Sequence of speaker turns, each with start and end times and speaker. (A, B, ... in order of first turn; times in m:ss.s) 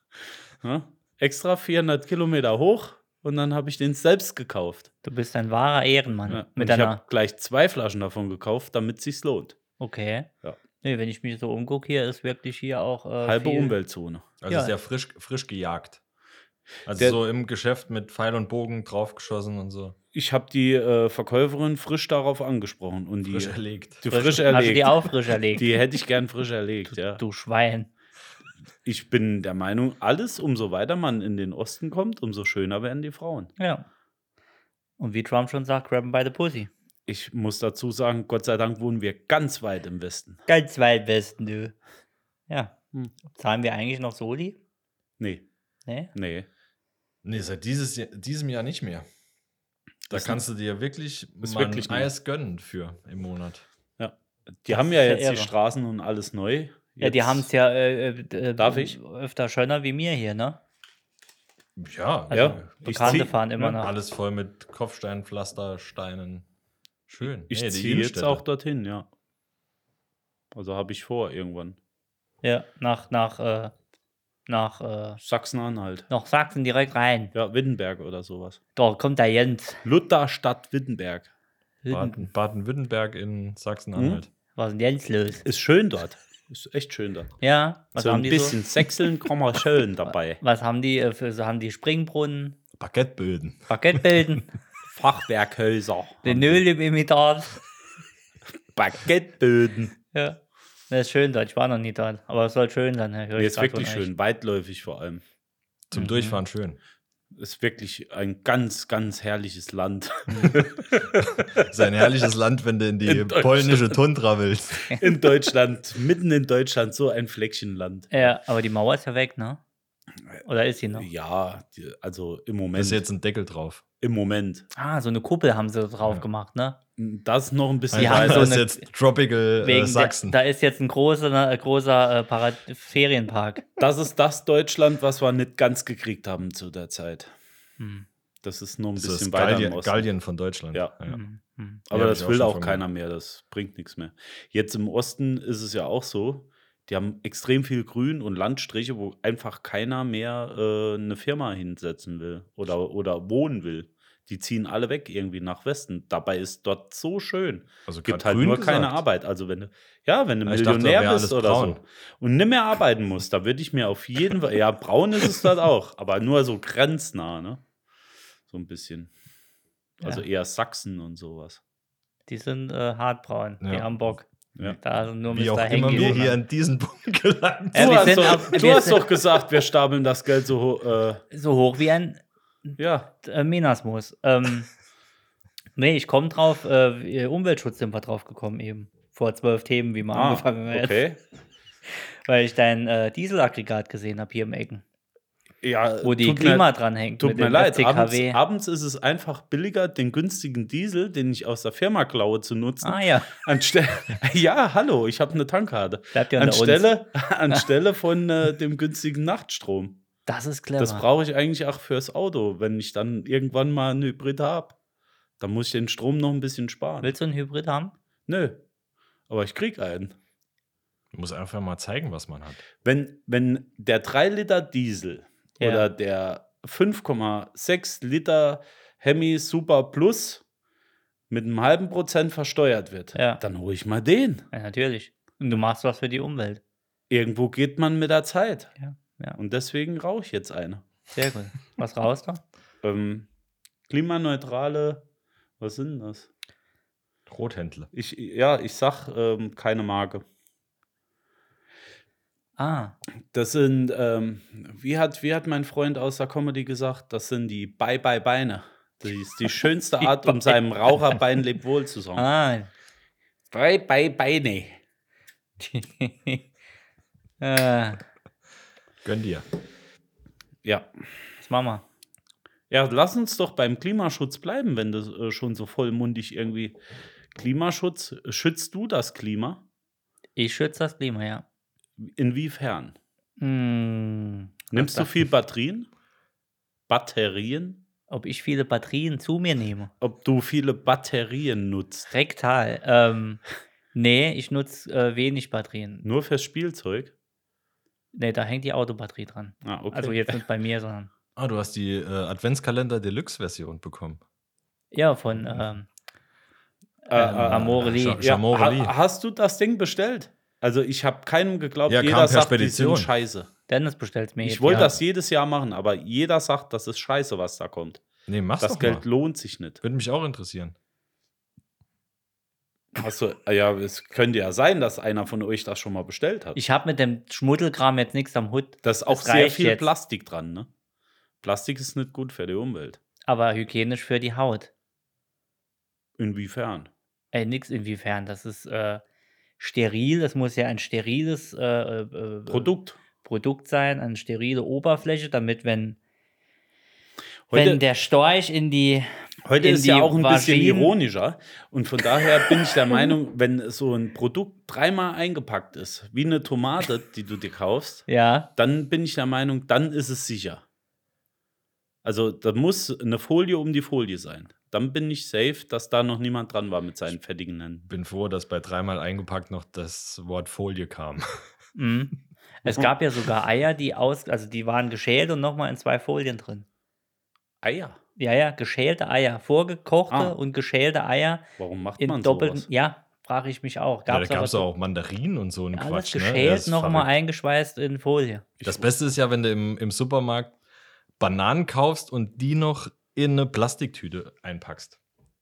0:00.6-0:04.9 A
0:05.0-0:07.0 B
0:06.3-0:09.6 A
0:09.8-0:10.3 B
0:10.8-0:13.7 B
0:13.2-0:14.3 A
0:14.4-0:16.0 C
0:16.8-0:20.0 C
0:20.1-0:27.2 A
0:23.3-0:24.0 C
0:24.1-0:25.7 B
0:26.9-0:27.9 B
0:28.8-0:33.5 A
0:33.6-0:33.8 B
0:35.0-0:36.7 B
0:37.1-0:40.4 A
0:40.5-0:41.7 B
0:42.5-0:42.8 B
0:43.3-0:44.6 B
0:45.2-0:45.4 A
0:45.8-0:46.1 B
0:46.1-0:46.4 A
0:47.2-0:49.0 C
0:50.1-0:50.4 A
0:50.1-0:53.6 C
0:51.4-0:52.1 A
0:54.0-0:57.5 A
0:54.7-0:55.5 B
0:57.0-1:00.6 B
0:58.6-0:59.0 A
1:01.8-1:06.4 C
1:02.3-1:03.8 A
1:02.3-1:03.9 B
1:07.1-1:08.4 C
1:07.5-1:09.1 A
1:10.5-1:11.8 A
1:12.4-1:13.7 B
1:14.5-1:15.2 B
1:15.2-1:16.1 A
1:16.1-1:17.3 B
1:17.3-1:18.6 A
1:18.7-1:19.8 B
1:19.8-1:21.3 A
1:21.8-1:22.3 B
1:21.9-1:24.3 C
1:23.9-1:24.2 A
1:24.5-1:25.4 B
1:25.4-1:27.4 A
1:27.4-1:28.6 B
1:28.0-1:30.4 A
1:30.4-1:32.6 B
1:32.8-1:34.4 C
1:33.7-1:34.5 B
1:34.9-1:36.6 A
1:36.2-1:37.6 B
1:38.7-1:39.9 A
1:40.1-1:40.4 B
1:40.9-1:44.1 B
1:43.4-1:45.2 A
1:45.9-1:46.8 C
1:45.9-1:46.4 B
1:47.3-1:51.7 A
1:50.3-1:50.6 B
1:51.4-1:55.0 C
1:53.0-1:54.0 A
1:55.0-1:58.3 A
1:58.1-1:59.6 B
2:00.4-2:01.1 B
2:00.9-2:03.0 A
2:02.7-2:03.8 C
2:04.0-2:04.7 A
2:04.8-2:06.8 B
2:07.0-2:08.6 A
2:07.9-2:10.4 C
2:07.9-2:08.8 B
2:09.6-2:13.6 B
2:13.8-2:17.3 A
2:17.8-2:18.0 B
2:18.4-2:20.1 A
2:19.0-2:21.2 C
2:21.1-2:21.8 B
2:21.9-2:22.8 C
2:21.9-2:47.6 A
2:37.9-2:39.0 C
2:40.4-2:41.8 C
2:48.5-2:49.1 A
2:50.0-2:51.6 A
2:52.3-2:54.2 B
2:53.6-2:53.9 C
2:54.8-2:56.4 B
2:55.3-2:58.6 C
2:57.7-2:59.1 B
2:57.7-3:01.2 A
3:01.3-3:04.7 B
3:02.8-3:03.1 A
3:05.8-3:11.0 B
3:10.1-3:11.2 A
3:12.2-3:14.8 B
3:15.6-3:30.0 A
3:16.0-3:18.4 B
3:22.8-3:23.3 B
3:26.1-3:27.6 B
3:30.3-3:31.0 B
3:30.8-3:34.8 A
3:35.4-3:37.1 A
3:37.0-3:37.9 B
3:38.3-3:38.6 A
3:39.3-3:40.1 A
3:41.1-3:42.6 C
3:42.8-3:50.4 A
3:45.6-3:45.8 B
3:51.3-3:54.5 A
3:53.1-3:53.4 B
3:54.5-3:56.6 B
3:57.1-3:58.7 A
3:58.8-3:59.4 B
3:59.4-4:00.8 A
4:01.1-4:02.4 B
4:02.8-4:03.3 A
4:03.9-4:05.0 A
4:05.6-4:06.3 A
4:07.3-4:07.9 C
4:07.9-4:10.2 A
4:12.6-4:13.0 B
4:13.3-4:22.3 A
4:20.0-4:20.6 B
4:22.2-4:22.7 B
4:23.5-4:24.8 A
4:25.6-4:26.5 B
4:27.4-4:28.0 B
4:29.0-4:29.4 C
4:30.6-4:30.9 A
4:31.4-4:31.8 B
4:32.7-4:36.8 A
4:37.3-4:39.6 A
4:40.4-4:41.4 B
4:42.0-4:43.0 A
4:43.4-4:45.1 B
4:44.7-4:45.9 A
4:46.9-4:47.8 A
4:48.1-4:49.9 B
4:50.0-4:52.1 A
4:52.1-4:53.4 B
4:53.9-4:56.0 B
4:56.0-4:57.1 A
4:58.1-5:01.1 B
4:59.6-5:00.4 A
5:01.4-5:04.2 C
5:04.9-5:05.9 B
5:07.1-5:08.2 B
5:07.1-5:13.5 A
5:07.2-5:08.9 C
5:11.9-5:13.1 C
5:13.7-5:14.9 B
5:14.4-5:18.0 A
5:14.7-5:14.9 C
5:18.3-5:19.0 C
5:18.6-5:19.8 A
5:19.8-5:20.7 C
5:23.0-5:26.6 A
5:26.5-5:29.9 B
5:28.8-5:30.7 A
5:31.4-5:33.0 A
5:33.2-5:34.7 B
5:36.2-5:36.9 A
5:37.3-5:39.0 B
5:39.6-5:42.7 B
5:42.5-5:43.0 A
5:43.2-5:46.0 B
5:47.5-5:47.8 A
5:47.5-5:50.9 B
5:49.4-6:00.6 A
5:58.1-5:58.5 B
6:02.0-6:07.8 A
6:07.9-6:11.4 C
6:11.7-6:16.6 B
6:17.6-6:18.0 A
6:18.2-6:21.4 B
6:20.1-6:20.3 A
6:21.6-6:22.7 A
6:22.0-6:24.6 B
6:24.1-6:27.1 C
6:25.7-6:28.4 B
6:28.6-6:28.9 A
6:28.6-6:30.6 C
6:31.2-6:35.0 C